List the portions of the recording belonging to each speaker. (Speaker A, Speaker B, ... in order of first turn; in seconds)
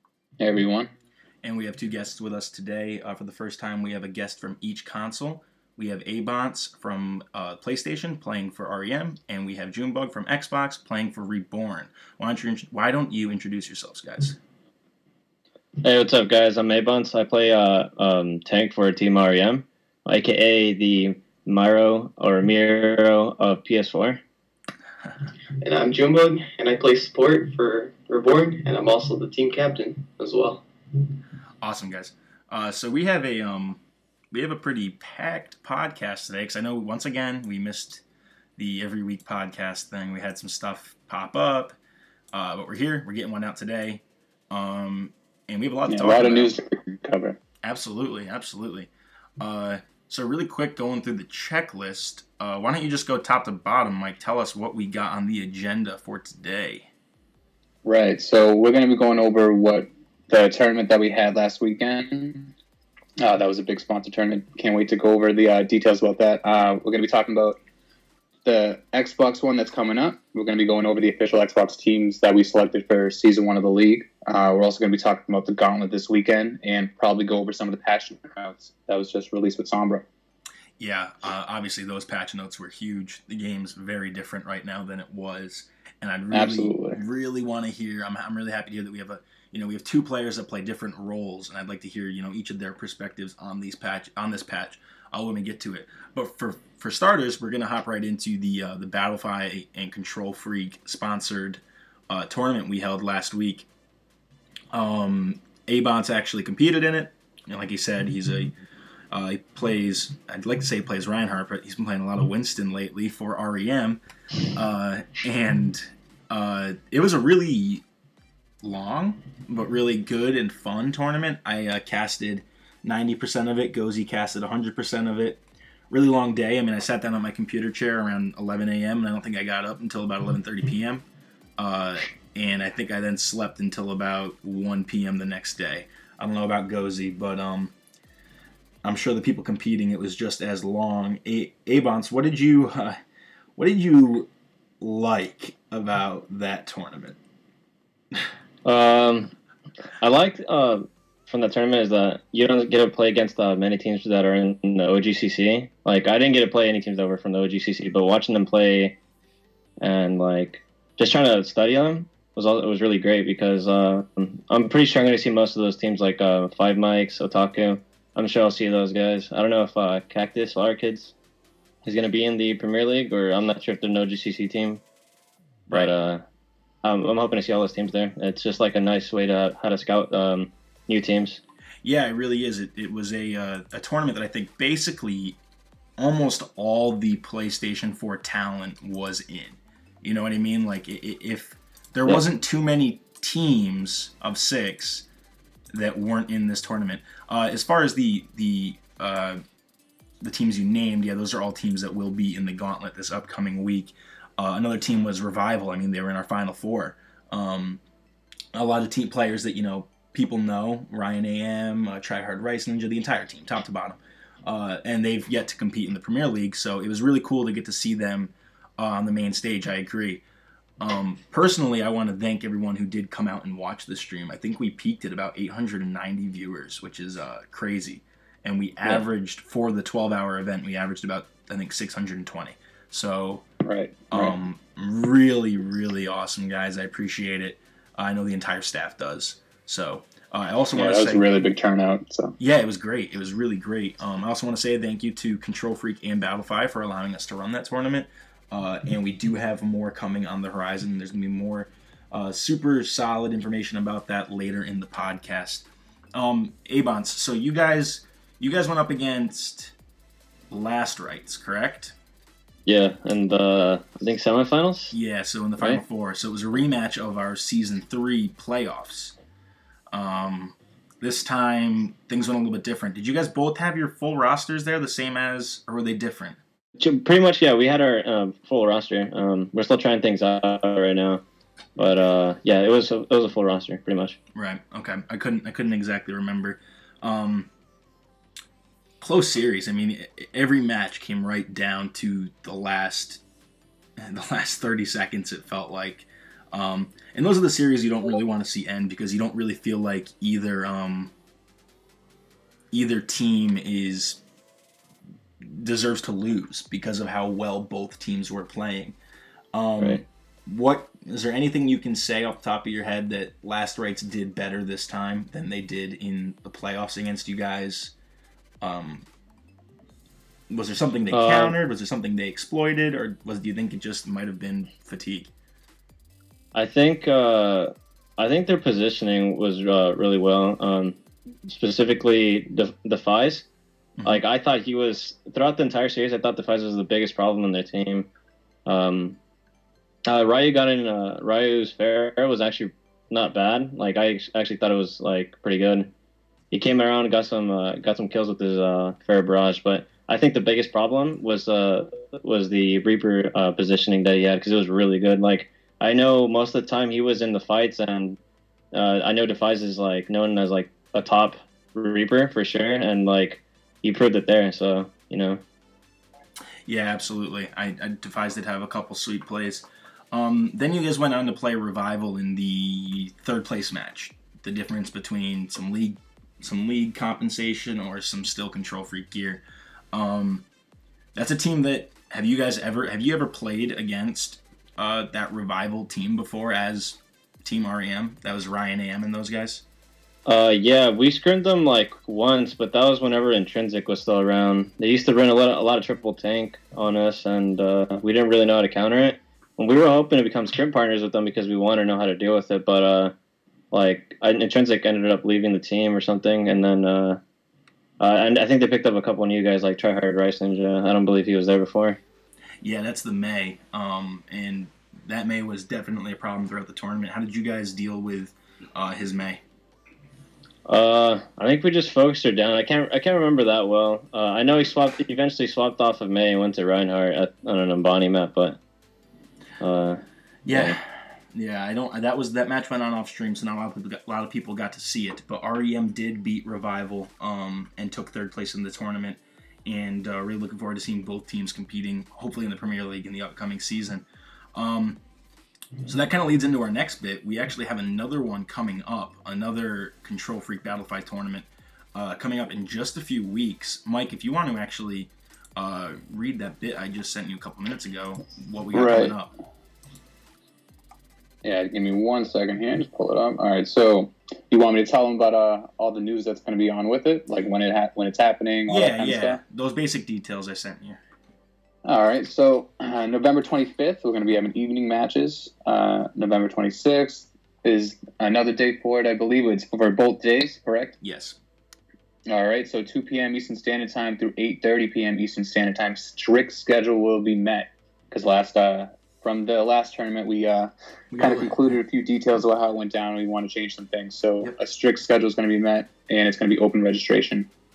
Speaker A: 0.4-0.9, 45.9-47.4, 57.8-62.5, 63.2-67.6, 68.4-80.0, 86.3-87.0, 233.6-234.3, 240.7-242.3, 458.7-459.1, 461.4-469.4, 471.8-480.9, 482.3-497.5
Speaker B: 1.4-14.4, 31.6-38.0, 38.6-41.8, 42.3-46.5, 47.6-56.9, 80.8-103.7, 104.7-108.5, 109.1-117.8, 118.6-131.0, 131.6-137.7, 138.8-143.0, 143.6-144.3, 144.8-147.2, 181.8-185.4, 186.0-195.1, 195.7-199.4, 200.2-207.8, 208.5-220.2, 220.8-233.4, 234.1-241.2, 242.4-259.7, 260.5-261.9, 264.9-269.1, 269.9-276.4, 284.3-287.5, 289.0-293.2, 294.0-301.1, 302.7-304.2, 305.4-308.9, 309.5-317.9, 318.6-319.1, 320.5-325.3, 334.0-334.2, 366.6-379.4, 379.9-380.4, 381.1-389.6, 412.6-419.4, 430.4-445.0, 445.8-459.3, 468.7-471.0, 481.0-481.4, 491.1-491.8
Speaker C: 15.8-24.2, 148.6-149.3, 150.0-158.9, 159.8-171.1, 171.8-174.8, 175.7-176.2, 176.8-181.4, 262.6-264.9, 276.8-281.2, 281.8-284.2, 321.1-321.6, 326.5-333.4, 334.0-338.1, 338.6-339.2, 340.1-345.9, 346.5-358.2, 358.7-365.4, 390.2-403.1, 403.7-407.2, 408.0-412.0, 420.7-428.6, 429.6-430.8
Speaker D: 25.6-30.6